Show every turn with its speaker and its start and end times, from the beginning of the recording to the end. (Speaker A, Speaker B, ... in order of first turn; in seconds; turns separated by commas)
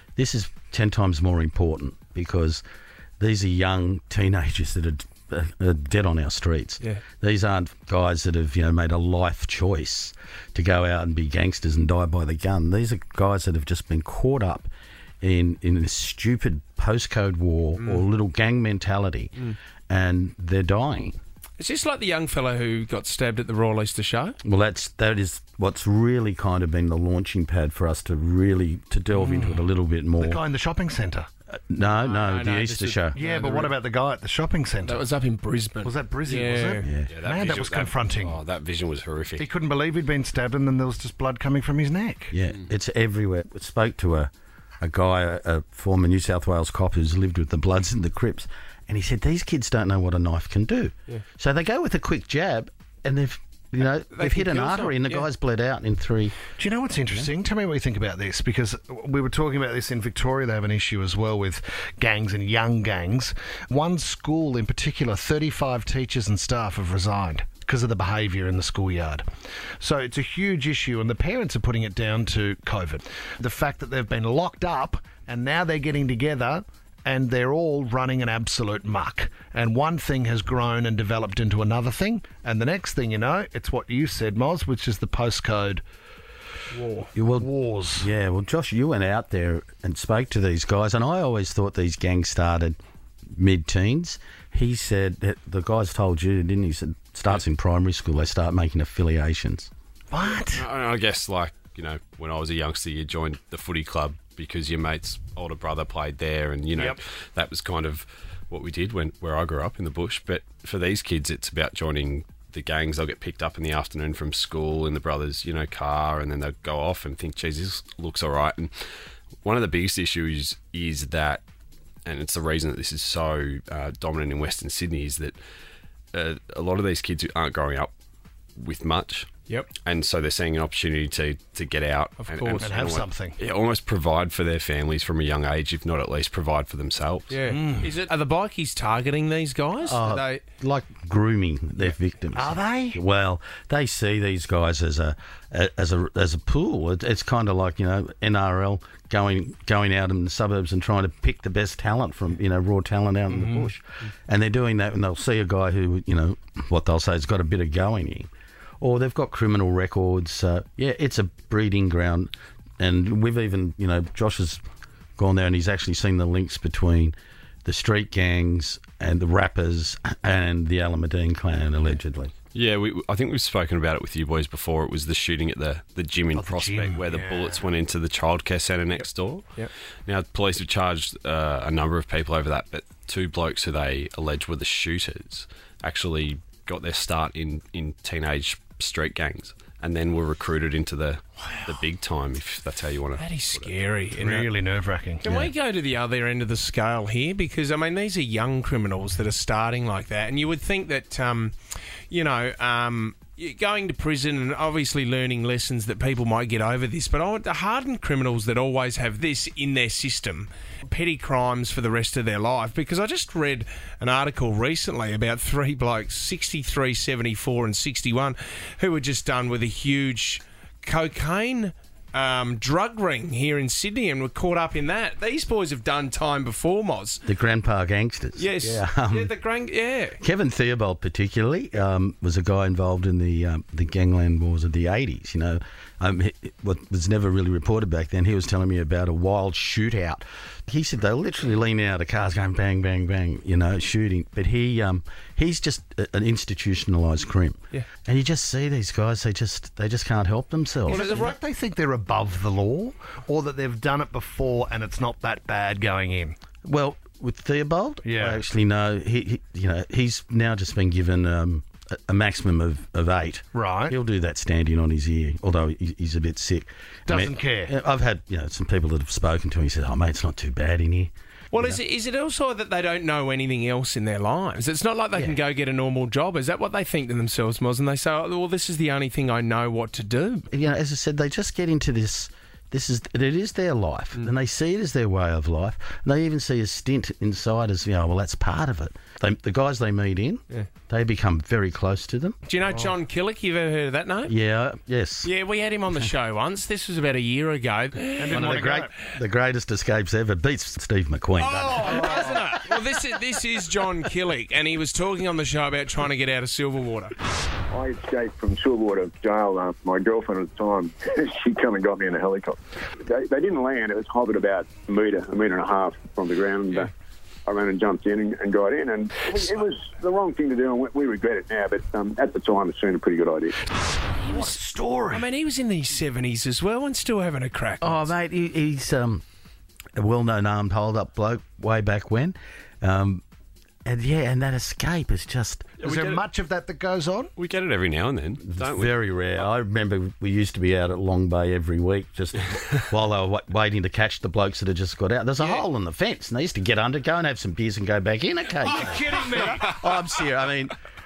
Speaker A: 0.2-2.6, Speaker A: 3.2-21.2, Speaker B: 21.6-24.4, Speaker A: 24.4-30.4, Speaker C: 29.1-29.6, Speaker C: 30.2-31.3, Speaker A: 31.5-33.1, Speaker B: 31.8-33.8, Speaker C: 33.1-35.0, Speaker B: 34.8-36.9, Speaker C: 35.8-38.4, Speaker A: 36.8-37.1, Speaker D: 37.1-39.5, Speaker C: 39.4-42.3, Speaker A: 42.3-56.4, Speaker B: 54.1-55.2, Speaker C: 56.6-69.2, Speaker C: 69.8-85.8, Speaker B: 86.7-87.1, Speaker A: 87.2-92.8, Speaker C: 87.3-88.1, Speaker A: 93.3-99.7, Speaker C: 100.1-100.7, Speaker D: 100.4-118.7, Speaker C: 106.7-107.0, Speaker D: 119.4-121.4, Speaker D: 122.0-125.4, Speaker D: 126.1-127.9, Speaker D: 128.6-129.3, Speaker D: 129.8-137.3, Speaker B: 132.2-132.7, Speaker C: 132.6-133.4, Speaker B: 137.3-140.4, Speaker C: 137.5-137.9, Speaker A: 139.8-158.3, Speaker C: 142.3-143.0, Speaker C: 153.3-153.7, Speaker A: 158.8-164.6, Speaker A: 165.2-172.3, Speaker D: 172.5-179.4, Speaker C: 176.3-177.6, Speaker D: 180.1-193.8, Speaker B: 193.1-194.5, Speaker C: 194.2-195.5, Speaker B: 195.2-201.5, Speaker B: 202.1-227.2, Speaker A: 227.2-229.3, Speaker B: 228.4-230.2, Speaker A: 230.2-251.3, Speaker B: 250.9-251.3, Speaker C: 250.9-256.4, Speaker A: 256.6-271.8, Speaker C: 258.0-258.4, Speaker C: 263.6-263.9, Speaker C: 267.1-267.7, Speaker B: 271.5-280.4, Speaker A: 280.5-292.4, Speaker B: 292.4-294.3, Speaker A: 294.3-295.3, Speaker B: 295.2-298.5, Speaker C: 298.1-298.9, Speaker A: 298.3-302.3, Speaker B: 301.4-307.1, Speaker E: 307.7-316.9, Speaker E: 317.4-323.6, Speaker B: 324.1-324.6, Speaker C: 324.3-325.2, Speaker B: 325.1-328.1, Speaker A: 327.8-329.2, Speaker A: 329.9-333.2, Speaker A: 333.8-335.7, Speaker D: 335.8-336.2, Speaker C: 335.8-337.3, Speaker D: 337.4-338.9, Speaker A: 338.5-350.8, Speaker C: 348.6-349.8